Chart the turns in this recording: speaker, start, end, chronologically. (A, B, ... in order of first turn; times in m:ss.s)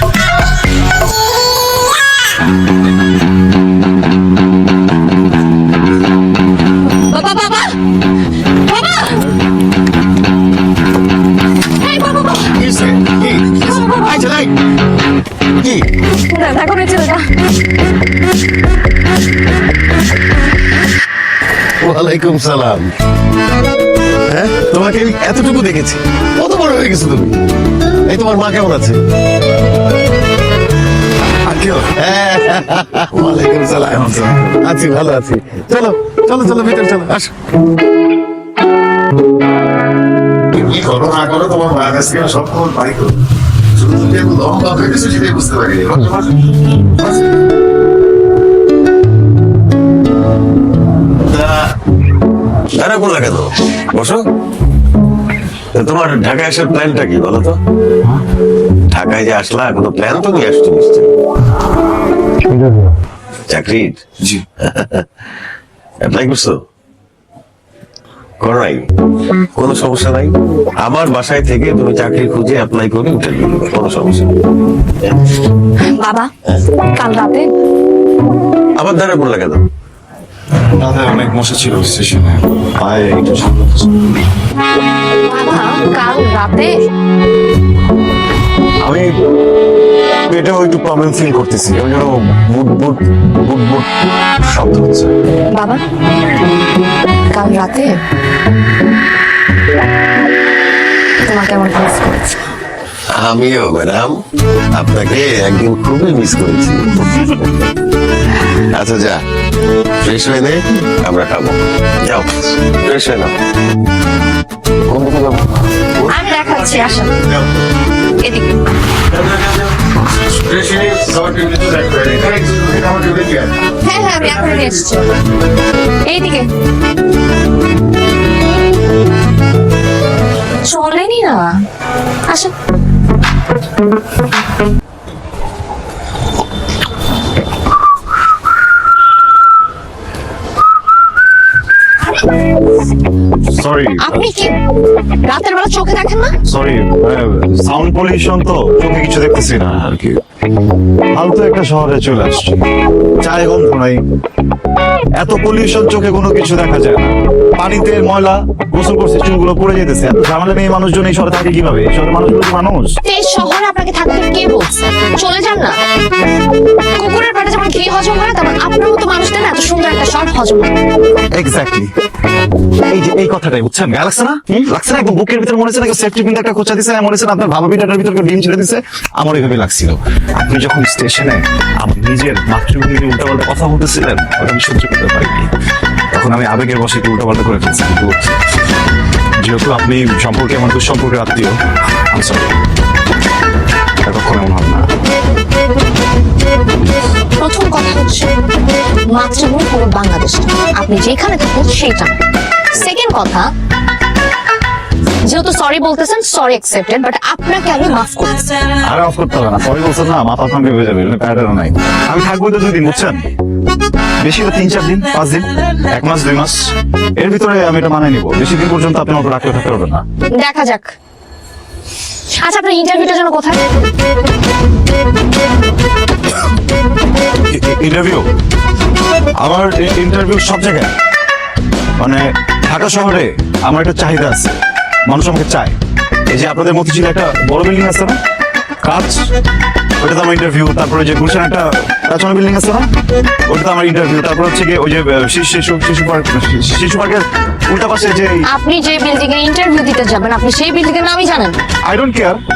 0:06.8-0:07.8 A
0:08.6-0:09.2 A
0:11.7-0:12.5 A
0:12.5-0:14.5 B
0:15.6-0:15.8 B
0:16.1-0:17.3 A
0:21.8-0:22.9 B
0:24.3-0:27.4 B
0:28.0-0:29.0 B
0:31.5-0:31.8 C
0:31.7-0:37.3 B
0:34.0-0:34.5 C
0:40.5-0:43.1 B
0:43.7-0:46.3 B
0:51.3-0:51.6 B
0:52.7-0:54.2 B
0:55.7-0:57.6 B
0:58.9-1:01.1 B
1:03.5-1:05.1 B
1:06.0-1:06.6 B
1:08.4-1:08.8 B
1:09.5-1:14.3 B
1:15.9-1:16.3 A
1:16.9-1:17.5 A
1:18.8-1:19.6 B
1:20.8-1:23.9 C
1:25.2-1:26.7 A
1:28.8-1:29.1 C
1:30.3-1:33.8 C
1:34.5-1:35.1 C
1:35.5-1:35.8 A
1:37.3-1:37.9 A
1:41.2-1:42.3 A
1:43.1-1:47.0 B
1:47.0-1:47.3 A
1:48.6-1:49.2 B
1:50.0-1:53.3 B
1:54.8-1:55.4 B
1:56.0-1:57.5 B
1:56.1-1:57.2 A
1:58.2-1:58.6 A
1:59.1-1:59.7 B
2:00.3-2:03.6 B
2:03.8-2:05.1 A
2:04.2-2:04.7 B
2:06.0-2:06.5 A
2:10.6-2:11.6 A
2:23.4-2:24.2 C
2:24.0-2:24.6 A
2:25.2-2:26.3 A
2:26.5-2:30.2 C
2:31.2-2:32.6 C
2:33.2-2:34.0 C
2:35.2-2:43.0 C
2:43.0-2:45.8 A
2:47.0-2:50.7 A
2:51.3-2:51.9 C
2:52.9-3:05.5 C
3:06.1-3:08.1 C
3:09.4-3:11.6 C
3:12.1-3:12.5 C
3:14.1-3:14.9 C
3:17.4-3:18.3 A
3:19.1-3:22.2 A
3:22.7-3:23.5 A
3:25.2-3:28.5 A
3:28.8-3:33.2 C
3:34.2-3:36.6 C
3:37.2-3:40.0 C
3:40.3-3:40.9 A
3:42.4-3:43.6 A
3:47.5-3:48.3 C
3:49.4-3:50.9 C
3:52.0-3:54.6 C
3:55.1-3:55.8 C
3:56.3-3:58.2 C
3:58.8-3:59.2 C
4:00.0-4:02.9 C
4:03.5-4:08.4 C
4:08.5-4:11.6 A
4:11.9-4:12.4 C